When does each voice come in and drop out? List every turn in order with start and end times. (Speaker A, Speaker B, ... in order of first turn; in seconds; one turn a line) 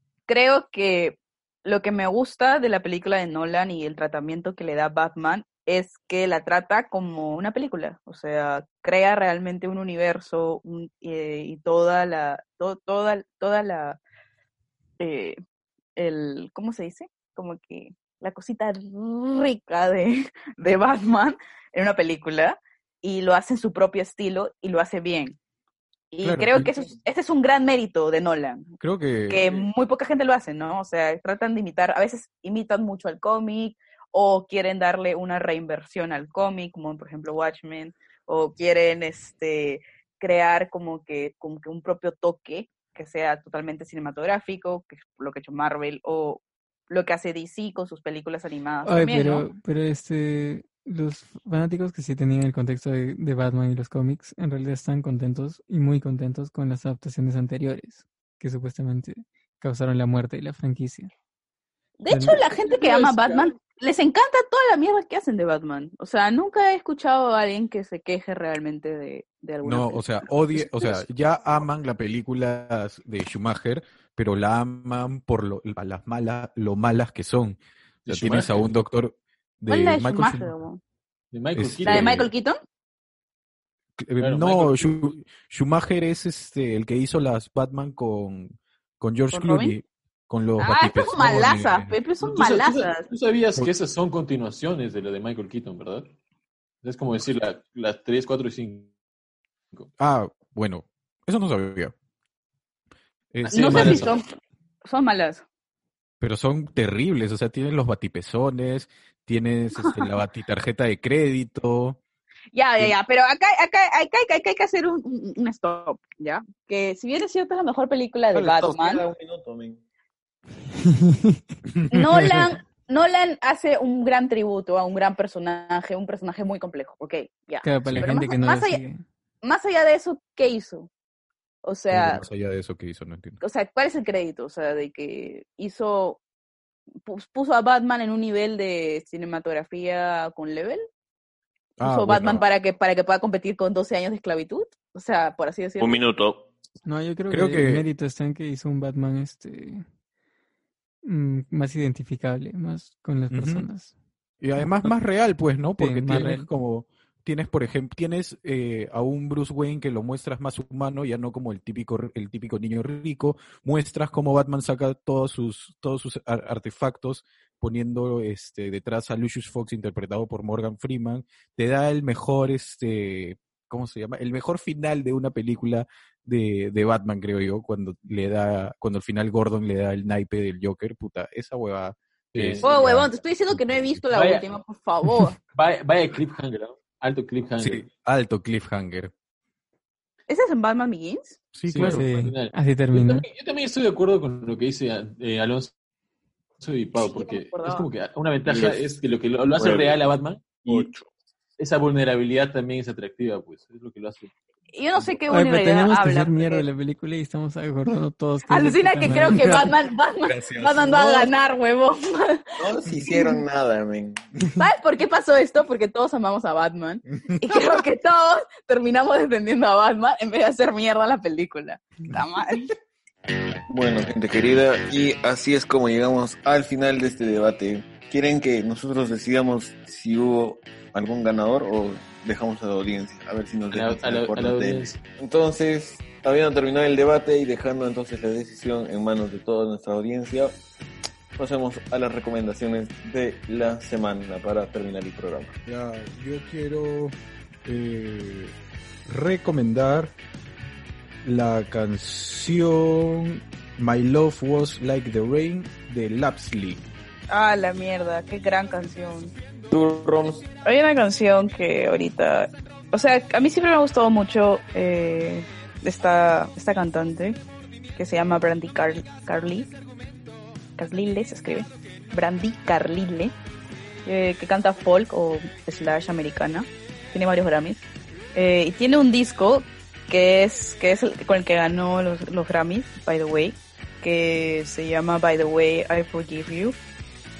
Speaker A: 0.3-14.0
Speaker A: 15.0-15.4
Speaker A: 16.0-25.4
Speaker A: 26.1-28.7
Speaker B: 26.2-26.7
Speaker B: 28.8-29.5
Speaker A: 29.3-49.5
Speaker C: 48.8-61.1
Speaker A: 62.0-70.7
Speaker D: 62.6-63.4
Speaker B: 69.6-80.5
Speaker D: 78.0-78.7
Speaker A: 79.7-80.8
Speaker D: 81.3-82.3
Speaker B: 81.5-82.3
Speaker A: 81.9-82.6
Speaker B: 84.0-92.0
Speaker D: 84.2-85.0
Speaker A: 89.3-89.8
Speaker A: 90.6-93.1
Speaker D: 92.2-96.1
Speaker D: 96.8-98.9
Speaker B: 100.0-101.9
Speaker B: 103.3-104.1
Speaker D: 103.4-104.2
Speaker A: 103.5-104.3
Speaker A: 104.8-105.4
Speaker B: 106.2-112.0
Speaker A: 112.5-119.0
Speaker E: 118.3-119.8
Speaker C: 120.9-121.4
Speaker B: 121.8-122.4
Speaker A: 121.9-128.8
Speaker C: 127.6-129.0
Speaker B: 127.8-128.1
Speaker A: 129.4-130.9
Speaker A: 131.6-132.2
Speaker B: 131.9-133.4
Speaker A: 133.4-136.2
Speaker A: 137.1-140.8
Speaker B: 141.8-142.4
Speaker A: 141.8-146.0
Speaker E: 145.8-146.5
Speaker C: 146.8-149.8
Speaker B: 147.3-147.8
Speaker C: 151.0-153.9
Speaker B: 153.3-153.7
Speaker B: 154.4-184.0
Speaker C: 155.8-156.5
Speaker D: 182.3-182.6
Speaker A: 182.6-185.4
Speaker D: 184.1-184.5
Speaker D: 185.5-187.9
Speaker B: 187.6-189.1
Speaker A: 190.3-191.4
Speaker B: 191.6-192.1
Speaker D: 191.7-195.7
Speaker C: 191.8-193.3
Speaker D: 196.6-200.9
Speaker A: 197.0-197.9
Speaker E: 198.4-198.8
Speaker E: 199.6-200.0
Speaker E: 200.7-201.0
Speaker D: 201.6-204.3
Speaker A: 204.7-206.6
Speaker C: 205.3-209.7
Speaker A: 208.5-212.4
Speaker E: 210.3-211.3
Speaker E: 212.6-214.3
Speaker A: 214.6-222.7
Speaker E: 223.7-240.6
Speaker D: 233.7-235.0
Speaker E: 241.4-245.6
Speaker B: 245.7-248.6
Speaker B: 249.1-250.1
Speaker B: 251.2-256.9
Speaker A: 257.3-259.3
Speaker E: 259.7-260.5
Speaker A: 260.6-267.4
Speaker A: 267.9-269.7
Speaker A: 270.8-273.3
Speaker A: 274.1-286.8